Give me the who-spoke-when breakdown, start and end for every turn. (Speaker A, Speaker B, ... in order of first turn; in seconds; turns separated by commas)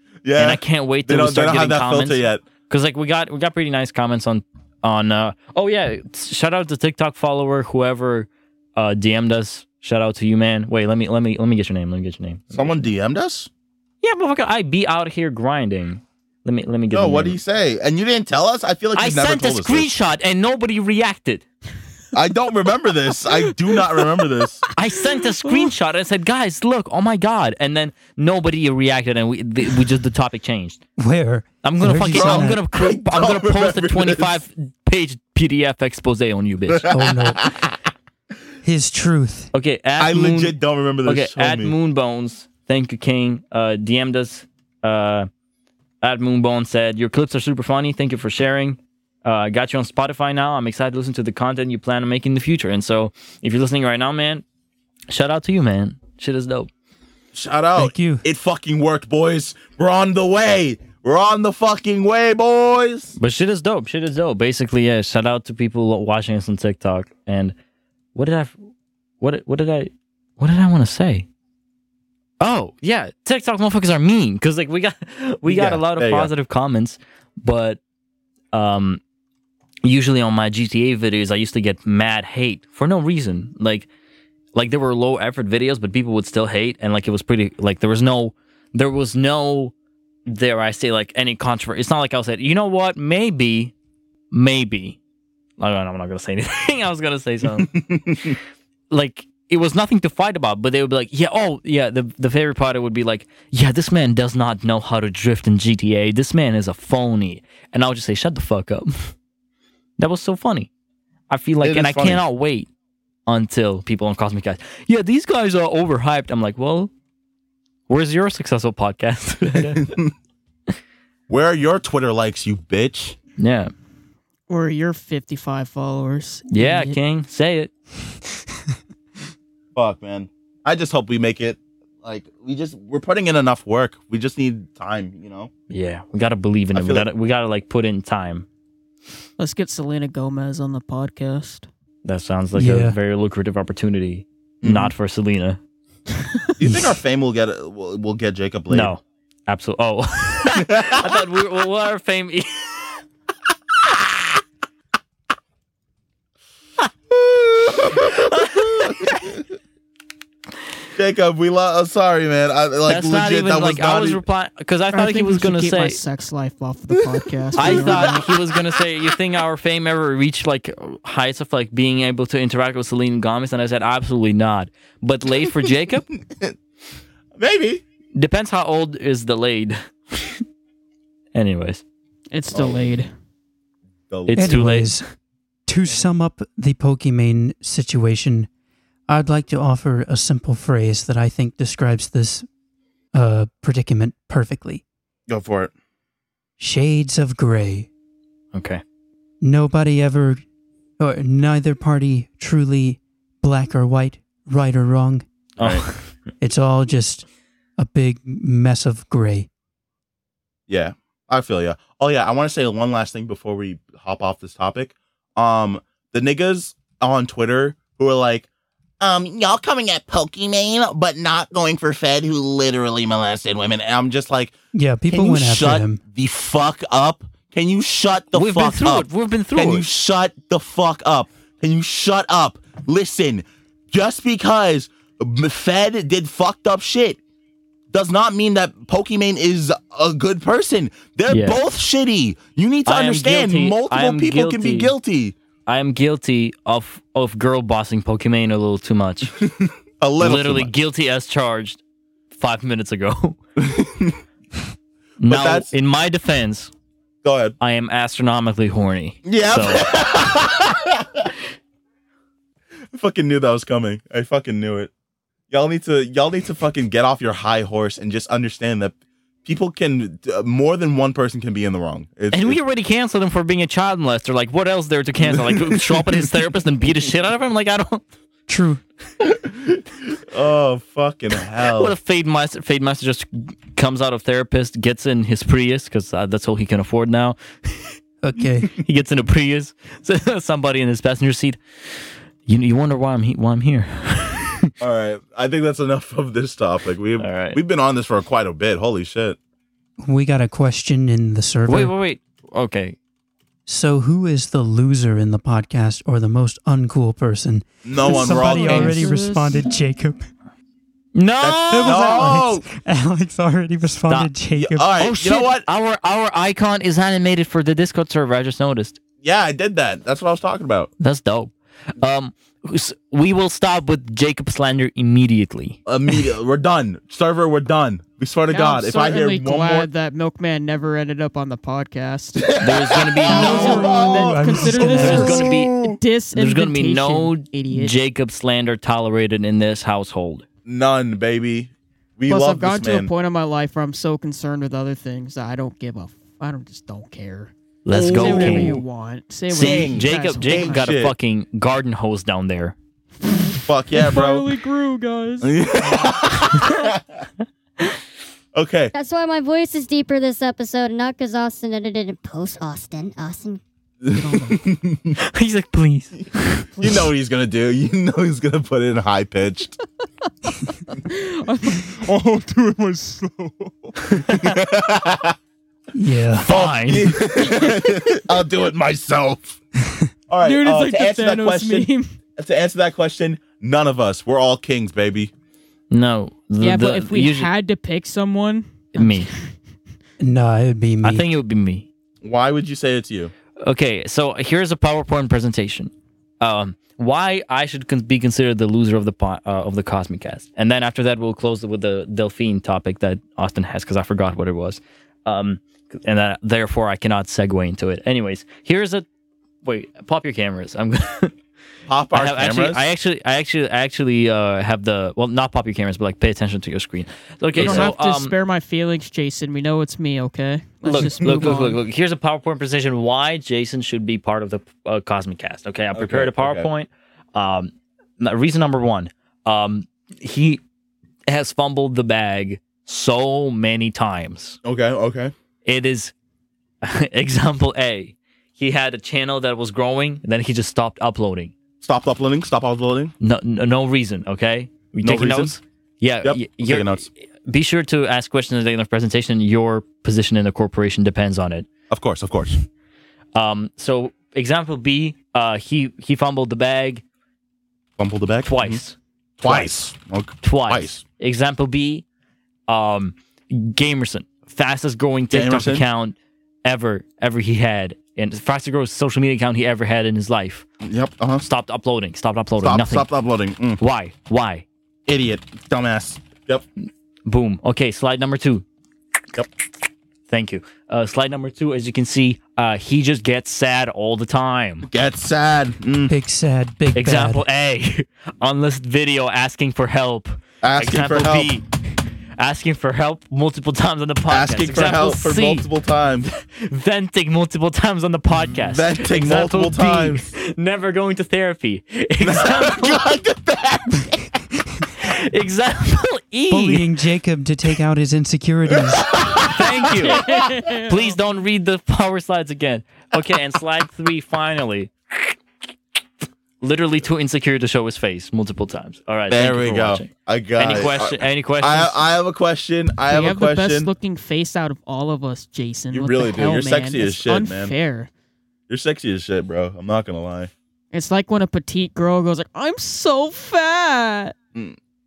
Speaker A: 0.2-2.4, Speaker B: 0.4-12.9, Speaker A: 12.5-13.5, Speaker B: 14.0-17.4, Speaker A: 16.9-19.9, Speaker B: 18.9-21.4, Speaker A: 22.1-24.6, Speaker B: 24.8-30.8, Speaker C: 31.0-32.6, Speaker B: 31.6-36.9, Speaker A: 32.1-34.4, Speaker A: 36.7-37.8, Speaker C: 36.9-37.5, Speaker C: 38.6-39.5, Speaker B: 39.5-45.3, Speaker A: 40.0-41.8, Speaker B: 46.0-54.5, Speaker B: 55.1-56.7, Speaker A: 57.3-63.1, Speaker C: 57.8-58.2, Speaker B: 63.2-67.5, Speaker B: 68.1-68.6, Speaker B: 69.2-71.3, Speaker B: 72.4-77.8, Speaker A: 75.5-76.3, Speaker B: 78.5-79.0, Speaker B: 79.8-83.9, Speaker B: 84.5-89.7, Speaker B: 90.3-93.7, Speaker B: 94.3-95.0, Speaker B: 95.6-98.3, Speaker A: 97.4-98.4, Speaker B: 98.9-109.1, Speaker B: 110.0-110.7, Speaker B: 111.3-112.7, Speaker A: 111.6-112.2, Speaker B: 113.3-116.9, Speaker B: 117.9-119.9, Speaker A: 119.5-120.1, Speaker A: 121.3-123.2, Speaker B: 123.4-123.7, Speaker D: 124.5-127.0, Speaker B: 126.5-127.7, Speaker A: 129.8-135.5, Speaker B: 135.7-138.5, Speaker A: 136.7-137.1, Speaker D: 139.4-141.7, Speaker B: 142.1-145.6, Speaker C: 142.6-143.0, Speaker A: 144.6-144.9, Speaker A: 146.6-148.9, Speaker B: 148.7-153.0, Speaker A: 150.5-151.2, Speaker A: 157.1-159.5, Speaker B: 157.9-159.0, Speaker A: 161.0-164.2, Speaker B: 162.9-166.0, Speaker D: 164.9-168.3, Speaker A: 167.6-168.8, Speaker B: 167.6-176.1, Speaker A: 176.3-176.6, Speaker A: 177.3-177.8, Speaker B: 178.2-180.4, Speaker B: 181.3-181.8, Speaker D: 182.3-183.1, Speaker A: 182.5-182.9, Speaker A: 184.1-184.7, Speaker B: 184.3-185.0, Speaker C: 184.3-185.0, Speaker C: 185.7-188.5, Speaker C: 189.1-192.5, Speaker C: 193.1-194.8, Speaker A: 195.3-195.7, Speaker C: 196.6-197.9, Speaker B: 198.5-198.8, Speaker C: 199.4-200.4, Speaker C: 201.0-205.2, Speaker B: 205.6-206.1, Speaker A: 205.6-205.9, Speaker C: 206.4-207.3, Speaker C: 207.8-209.5, Speaker A: 210.7-218.5, Speaker A: 219.0-224.5, Speaker C: 224.7-226.0, Speaker A: 225.1-237.2, Speaker B: 228.3-229.9, Speaker A: 237.9-245.3, Speaker B: 241.3-241.6, Speaker B: 242.9-244.9, Speaker B: 245.7-249.4, Speaker A: 249.4-250.7, Speaker B: 250.2-251.8, Speaker B: 252.4-253.4, Speaker A: 253.6-254.2, Speaker B: 255.2-256.7, Speaker A: 255.3-255.7, Speaker A: 257.2-257.6, Speaker B: 257.6-259.9, Speaker A: 259.2-261.3, Speaker A: 262.9-264.9, Speaker A: 265.5-272.6, Speaker B: 272.3-278.1, Speaker A: 275.2-276.3, Speaker C: 278.5-278.8, Speaker A: 279.2-281.9, Speaker B: 281.7-288.0, Speaker C: 288.2-288.7, Speaker B: 288.8-291.6, Speaker B: 292.5-294.7, Speaker A: 294.8-299.4, Speaker B: 297.2-297.6, Speaker C: 300.0-301.9, Speaker B: 301.7-303.0, Speaker C: 303.7-310.3, Speaker A: 307.9-309.1, Speaker D: 308.1-309.7, Speaker B: 311.1-312.3, Speaker A: 311.4-312.7, Speaker C: 311.7-314.9, Speaker B: 314.1-314.3, Speaker A: 314.6-315.7, Speaker B: 315.0-319.0, Speaker A: 319.2-320.9, Speaker B: 321.0-325.8, Speaker A: 325.9-329.9, Speaker D: 328.5-332.6, Speaker A: 332.4-336.0, Speaker B: 332.6-333.9, Speaker D: 333.2-337.9, Speaker C: 333.4-335.4, Speaker B: 334.9-335.7, Speaker B: 336.3-340.4, Speaker A: 340.7-343.1, Speaker D: 342.3-350.9, Speaker B: 347.9-348.8, Speaker A: 347.9-348.8, Speaker A: 349.5-351.1, Speaker B: 349.5-352.8, Speaker D: 353.3-356.1, Speaker A: 353.6-354.5, Speaker A: 355.4-357.2, Speaker A: 358.5-358.9, Speaker E: 358.9-363.6, Speaker A: 364.0-365.2, Speaker B: 365.2-366.7, Speaker A: 366.8-369.8, Speaker D: 370.9-372.0, Speaker A: 371.9-375.4, Speaker B: 374.1-374.5, Speaker C: 375.9-376.5, Speaker B: 376.4-377.4, Speaker A: 376.5-379.6, Speaker A: 380.3-385.3, Speaker D: 380.4-382.1, Speaker B: 385.9-387.5, Speaker D: 386.6-389.5, Speaker B: 388.9-389.3, Speaker C: 390.2-391.2, Speaker B: 391.0-391.9, Speaker A: 392.2-393.3, Speaker B: 393.6-409.1, Speaker B: 409.6-411.4, Speaker A: 411.9-412.8, Speaker B: 412.1-418.3, Speaker A: 417.6-417.9, Speaker D: 417.6-421.8, Speaker B: 420.8-430.6, Speaker A: 421.0-421.6, Speaker A: 425.9-426.7, Speaker B: 431.3-434.6, Speaker A: 434.6-435.3, Speaker B: 435.6-436.1, Speaker B: 436.8-441.5, Speaker A: 441.8-443.1, Speaker B: 443.2-451.7, Speaker A: 445.0-445.6, Speaker A: 446.2-447.1, Speaker A: 451.9-452.6, Speaker B: 453.4-457.0, Speaker A: 458.0-458.8, Speaker B: 458.4-459.7, Speaker A: 459.4-461.0, Speaker B: 460.4-462.1, Speaker B: 462.7-470.7, Speaker A: 465.3-465.9, Speaker A: 470.8-471.4, Speaker B: 471.4-473.1, Speaker A: 472.6-473.8, Speaker B: 473.8-474.7, Speaker A: 475.1-476.6, Speaker B: 477.3-478.6, Speaker B: 480.3-484.9, Speaker A: 484.9-486.1, Speaker C: 486.1-487.4, Speaker B: 486.9-491.7, Speaker A: 490.6-491.5, Speaker B: 492.4-495.7, Speaker A: 494.3-496.3, Speaker B: 496.4-503.1, Speaker A: 498.5-500.3, Speaker A: 502.2-504.4, Speaker B: 505.0-506.9, Speaker C: 506.5-509.2, Speaker A: 508.8-510.5, Speaker B: 509.4-515.4, Speaker D: 510.0-511.2, Speaker B: 516.6-522.0, Speaker A: 519.3-523.9, Speaker D: 523.1-528.1, Speaker A: 525.9-527.7, Speaker A: 528.7-530.5, Speaker D: 530.9-534.4